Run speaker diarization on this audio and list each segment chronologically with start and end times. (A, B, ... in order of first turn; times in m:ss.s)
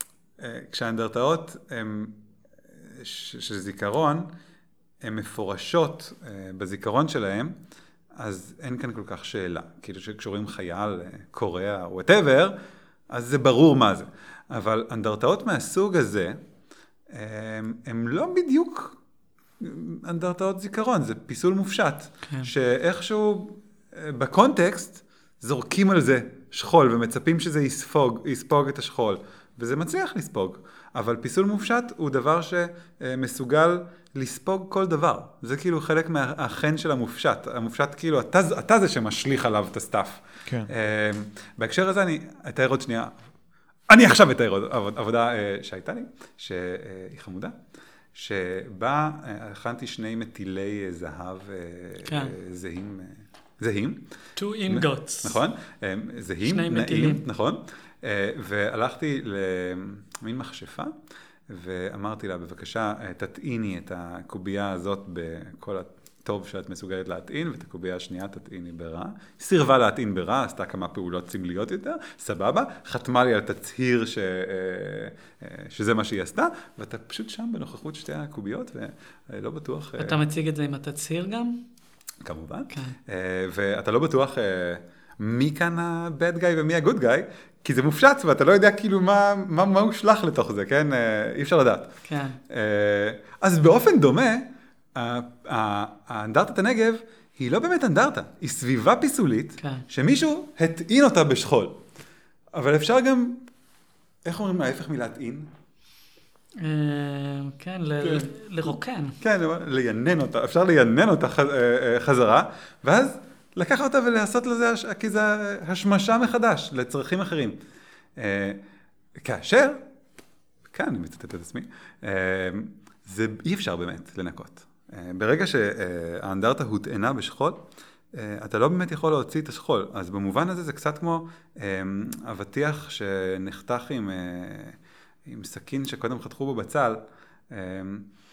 0:00.4-0:02.2 A
0:02.8-0:04.3 A
0:05.0-0:07.6 A
0:08.2-0:12.6 A
0:13.1-0:16.4 A
0:17.1-0:19.0 A
0:19.6-0:43.1 A
0:43.9-0:47.5 A
0:48.1-0:54.0 A
0:52.1-0:52.3 B
0:54.4-0:55.4 B
0:54.7-1:00.9 A
0:56.4-0:57.2 B
1:01.5-1:20.2 A
1:20.0-1:21.6 B
1:22.2-1:31.9 A
1:32.0-1:32.4 B
1:32.5-1:41.8 A
1:42.5-1:43.4 A
1:44.2-1:45.5 A
1:46.6-1:49.2 B
1:48.0-1:48.3 A
1:49.2-1:57.6 A
1:58.2-1:58.6 A
1:59.2-1:59.8 A
2:00.7-2:18.0 A